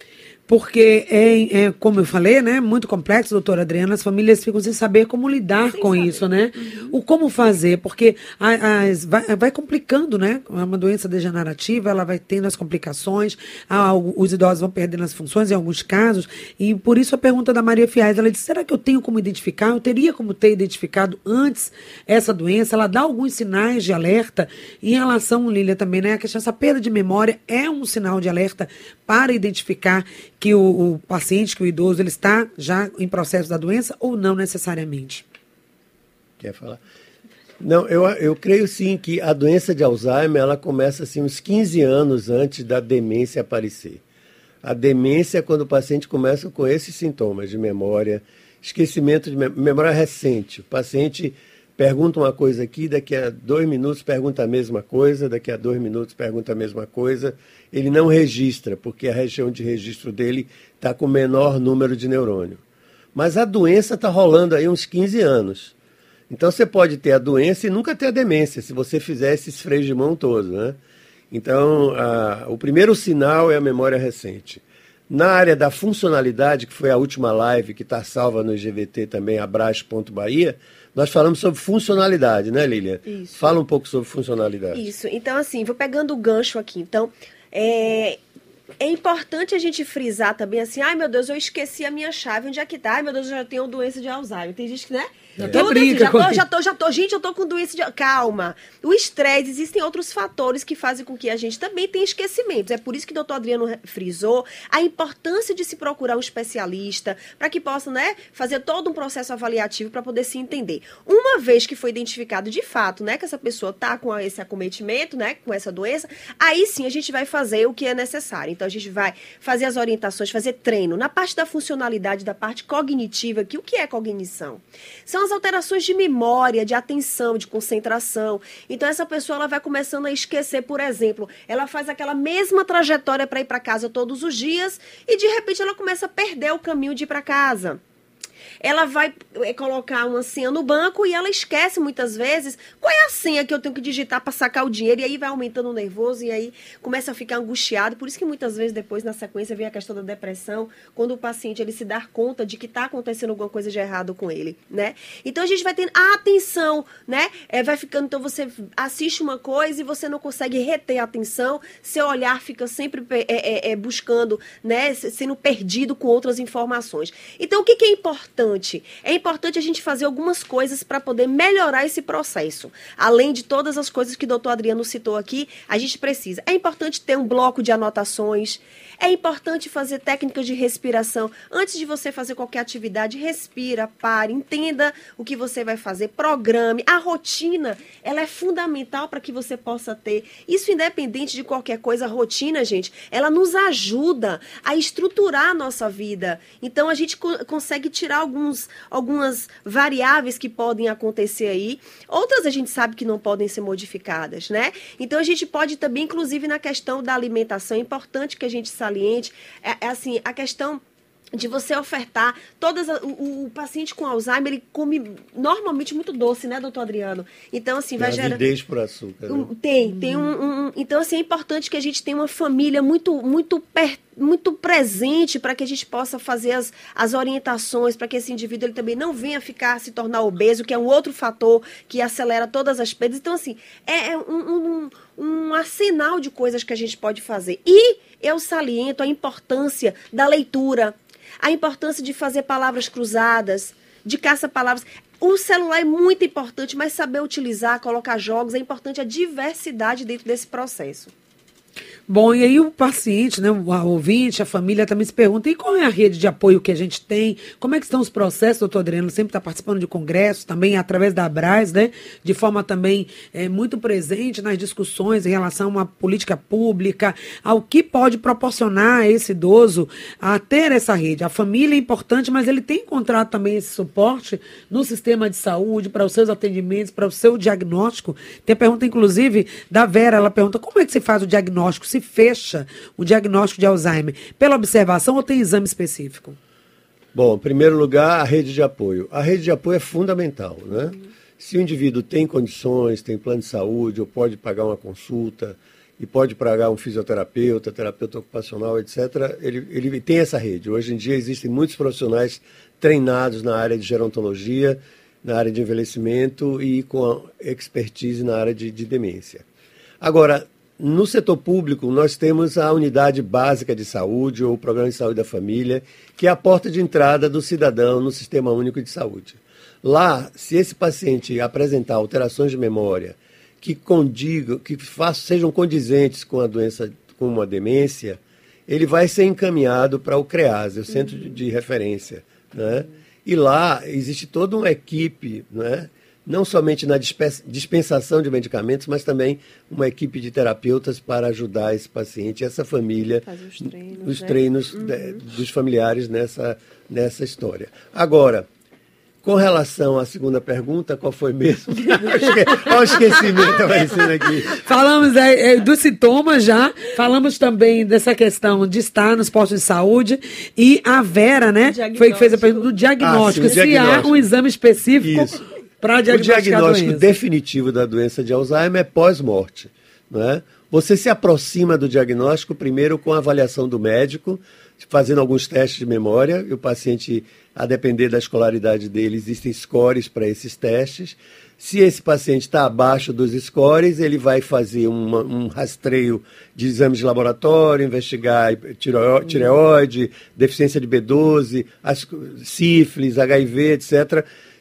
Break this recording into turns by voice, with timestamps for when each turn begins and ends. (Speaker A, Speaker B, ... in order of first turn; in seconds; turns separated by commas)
Speaker A: 0.5-35.2, Speaker B: 5.7-6.9, Speaker C: 36.4-36.8, Speaker C: 37.6-44.0, Speaker C: 44.6-62.6, Speaker C: 63.1-65.7, Speaker C: 66.3-70.8, Speaker C: 71.3-84.9, Speaker B: 83.1-83.6, Speaker B: 84.7-88.2, Speaker B: 88.8-137.8, Speaker A: 95.4-96.4, Speaker B: 138.6-210.8, Speaker B: 211.3-218.4, Speaker C: 218.0-219.5, Speaker B: 219.3-251.1, Speaker A: 252.1-286.4, Speaker C: 287.1-309.4, Speaker C: 310.0-348.5, Speaker B: 343.1-345.2, Speaker C: 349.2-354.6, Speaker A: 354.5-367.1, Speaker B: 361.6-362.7, Speaker C: 363.0-364.1, Speaker B: 363.2-363.9, Speaker C: 365.0-365.4, Speaker C: 366.1-394.2